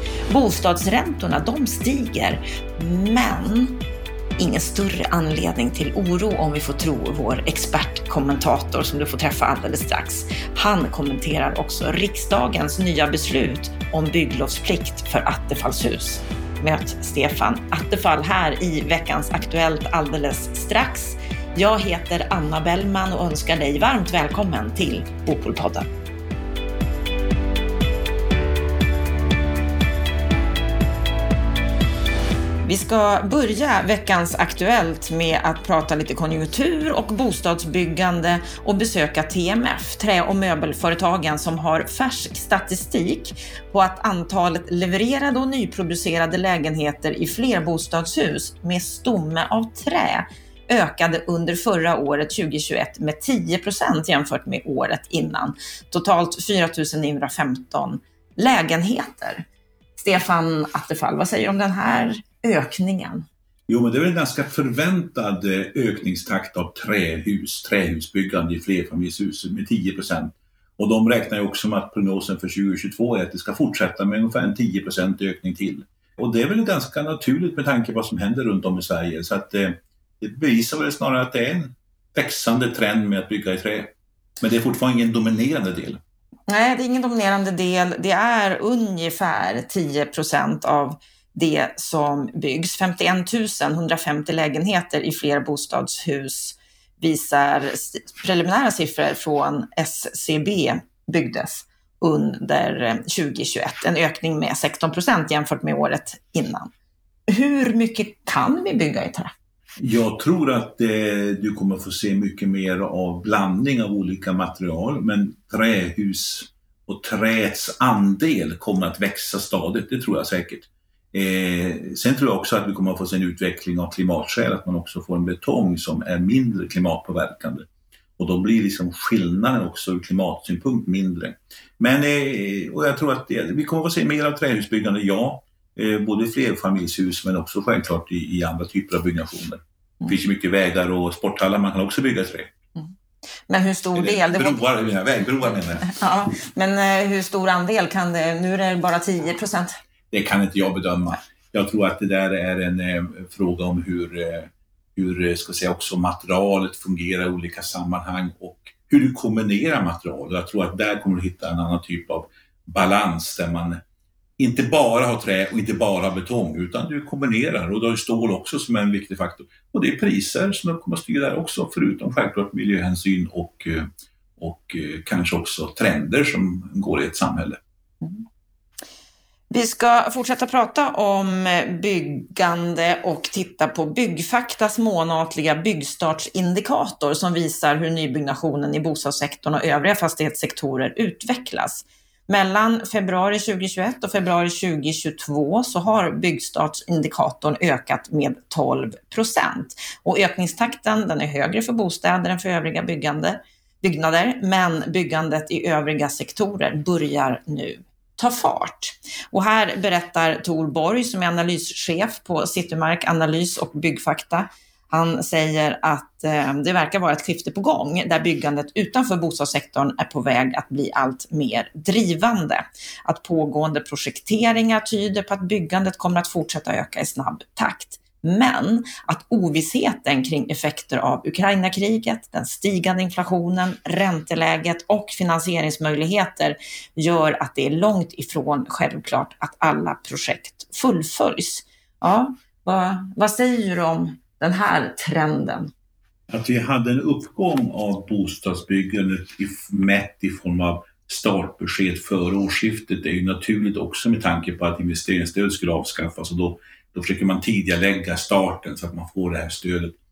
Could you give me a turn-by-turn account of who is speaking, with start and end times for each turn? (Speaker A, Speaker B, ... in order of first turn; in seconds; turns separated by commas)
Speaker A: 0.3-3.8, Speaker A: 4.4-25.9, Speaker A: 32.6-59.4, Speaker A: 60.0-63.3, Speaker B: 63.7-86.0, Speaker A: 86.5-106.7, Speaker A: 107.3-109.3, Speaker B: 109.8-142.5, Speaker A: 143.5-144.6, Speaker B: 143.9-145.9, Speaker A: 145.8-149.8, Speaker B: 150.1-163.8, Speaker B: 164.4-173.9, Speaker B: 174.4-177.6, Speaker A: 179.5-245.7, Speaker B: 246.3-259.9